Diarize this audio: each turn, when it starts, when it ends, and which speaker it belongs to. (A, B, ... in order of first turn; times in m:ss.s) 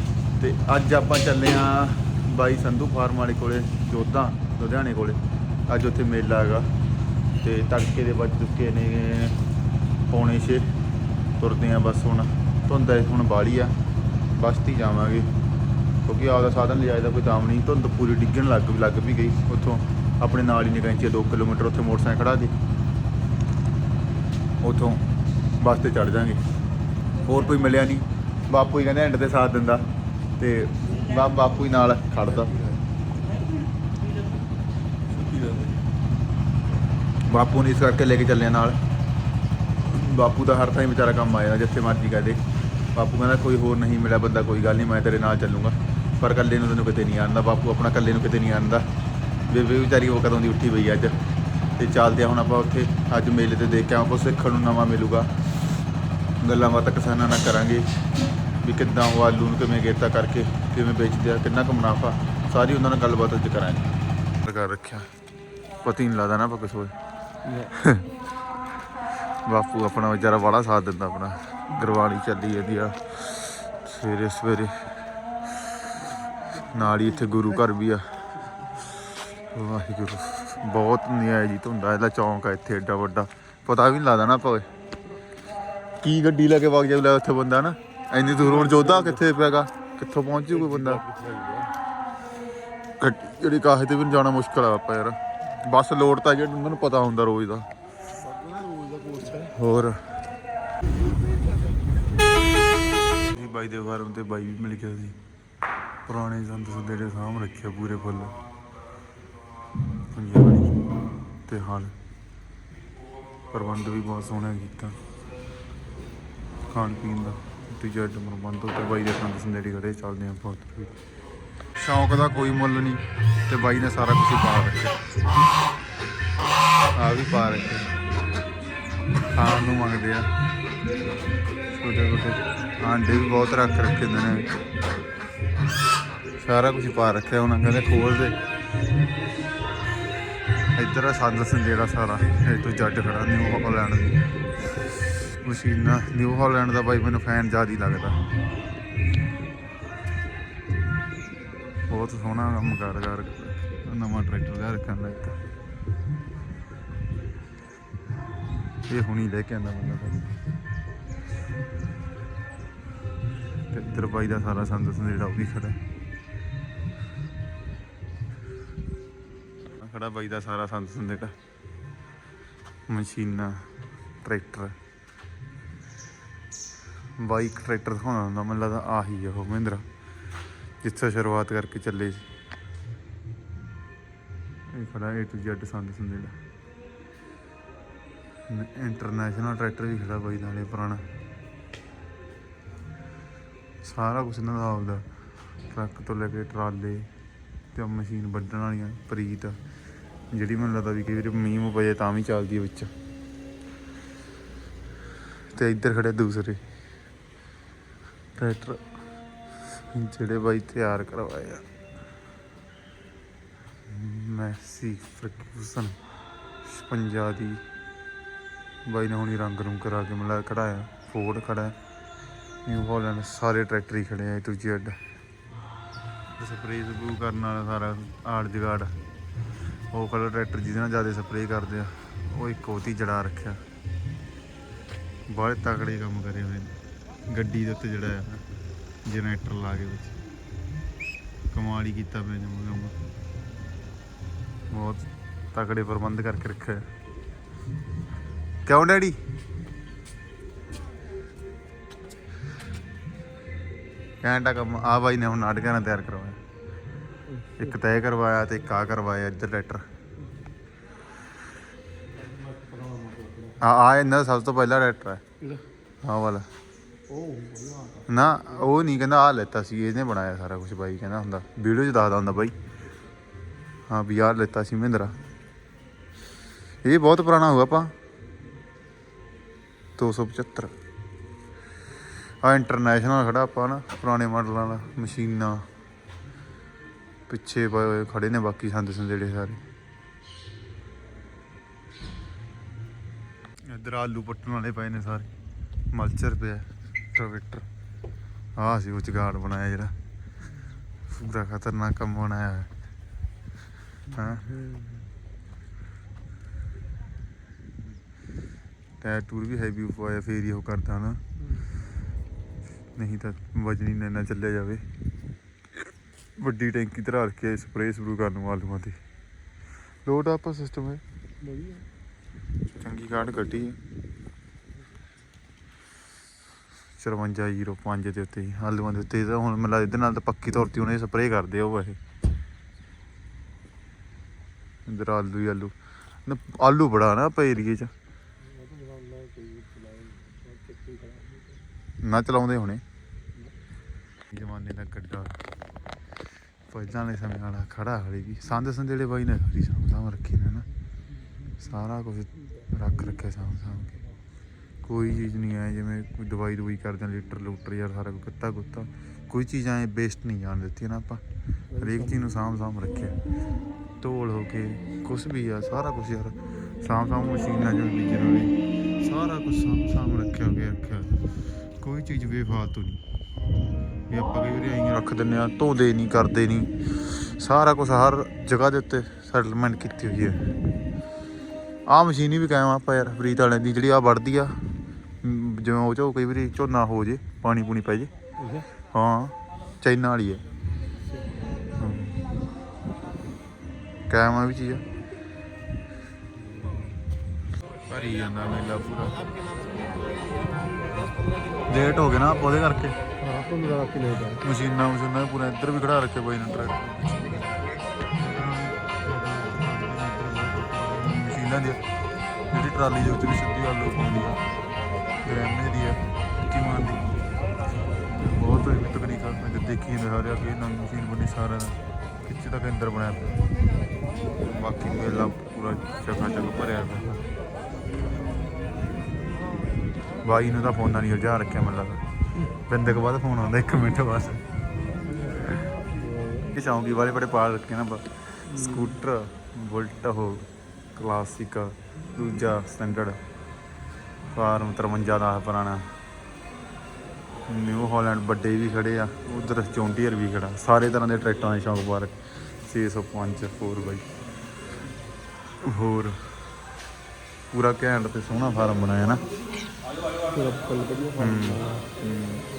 0:00.4-0:06.7 A
0:07.4-0:09.4 A
0:10.1-0:10.7 A
0:11.4-0:13.7 A
0:14.4-0:15.3 A
0:16.1-0:22.5 A
0:24.6-0:25.0 A
0:25.6-0:26.4 A
0:27.2-0:29.8 A
0:30.4-0:32.5 A
0:37.3-0:38.8 A
0:39.8-0:42.4 A
0:43.0-0:48.8 A
0:49.5-0:51.2 A
0:51.8-0:55.3 A
0:56.4-0:57.9 A
0:58.6-1:03.9 A
1:04.4-1:05.1 A
1:05.8-1:06.9 A
1:07.7-1:08.1 A
1:09.5-1:14.7 A
1:16.6-1:18.1 A
1:19.5-1:24.7 A
1:26.0-1:31.1 A
1:31.0-1:31.7 B
1:33.0-1:37.7 A
1:38.7-1:39.2 B
1:39.4-1:40.0 A
1:43.2-1:45.2 A
1:46.1-1:48.4 A
1:50.1-1:50.8 A
1:51.5-1:51.9 A
1:53.5-1:55.0 A
1:56.7-2:01.0 A
2:01.8-2:05.0 A
2:07.0-2:07.9 A
2:09.3-2:10.3 A
2:11.8-2:14.5 A
2:16.4-2:18.4 A
2:20.8-2:24.3 A
2:25.3-2:28.2 A
2:31.9-2:35.4 A
2:38.9-2:40.3 A
2:43.7-2:45.8 A
2:49.8-2:51.3 A
2:52.9-2:53.6 A
2:54.2-2:54.7 A
2:57.2-2:59.8 A
3:00.8-3:02.3 A
3:04.7-3:06.3 A
3:08.5-3:11.0 A
3:13.8-3:15.0 A
3:15.7-3:17.1 A
3:17.7-3:19.6 A
3:20.3-3:22.9 A
3:25.5-3:26.6 A
3:28.4-3:28.8 A
3:29.9-3:31.6 A
3:33.9-3:36.0 A
3:36.6-3:37.6 A
3:38.9-3:41.8 A
3:42.7-3:45.0 A
3:46.4-3:48.9 A
3:49.9-3:53.6 A
3:55.3-3:56.7 A
3:57.3-3:58.4 A
3:59.1-4:00.2 A
4:01.5-4:03.0 A
4:04.7-4:06.8 A
4:08.7-4:09.2 A
4:14.2-4:16.4 A
4:17.6-4:19.8 A
4:22.6-4:23.5 B
4:23.6-4:25.2 A
4:26.0-4:26.5 A
4:27.1-4:28.0 B
4:28.1-4:32.5 A
4:33.9-4:35.2 A
4:36.8-4:37.9 A
4:40.0-4:40.7 A
4:42.4-4:45.6 A
4:47.3-4:49.6 A
4:53.7-4:55.3 A
4:55.9-4:57.6 A
4:58.6-4:59.9 A
5:01.1-5:02.7 A
5:04.1-5:04.4 A
5:04.6-5:04.8 B
5:09.0-5:11.2 A
5:13.0-5:14.8 A
5:16.4-5:19.0 A
5:20.0-5:21.0 A
5:21.5-5:21.8 B
5:22.8-5:23.8 A
5:27.0-5:32.0 A
5:34.9-5:35.7 A
5:36.2-5:37.9 A
5:38.5-5:41.5 B
5:42.0-5:42.8 A
5:44.3-5:45.4 A
5:46.7-5:50.7 A
5:51.6-5:54.0 A
5:54.8-6:01.2 A
6:01.8-6:03.2 A
6:04.0-6:11.2 A
6:11.8-6:13.0 A
6:14.1-6:20.4 A
6:21.9-6:24.6 A
6:25.2-6:28.1 A
6:28.9-6:30.4 A
6:31.8-6:32.2 A
6:34.1-6:34.8 A
6:37.9-6:39.2 A
6:41.7-6:43.0 A
6:43.2-6:44.3 B
6:44.2-6:47.4 A
6:48.2-6:51.8 A
6:52.5-6:54.4 A
6:55.2-6:57.1 A
6:58.2-7:03.4 A
7:04.4-7:07.2 A
7:10.2-7:12.0 A
7:12.7-7:14.4 A
7:16.5-7:20.4 A
7:21.0-7:23.2 A
7:24.3-7:25.9 A
7:27.5-7:34.0 A
7:35.6-7:36.2 A
7:37.5-7:39.2 A
7:40.3-7:41.6 B
7:41.2-7:42.4 A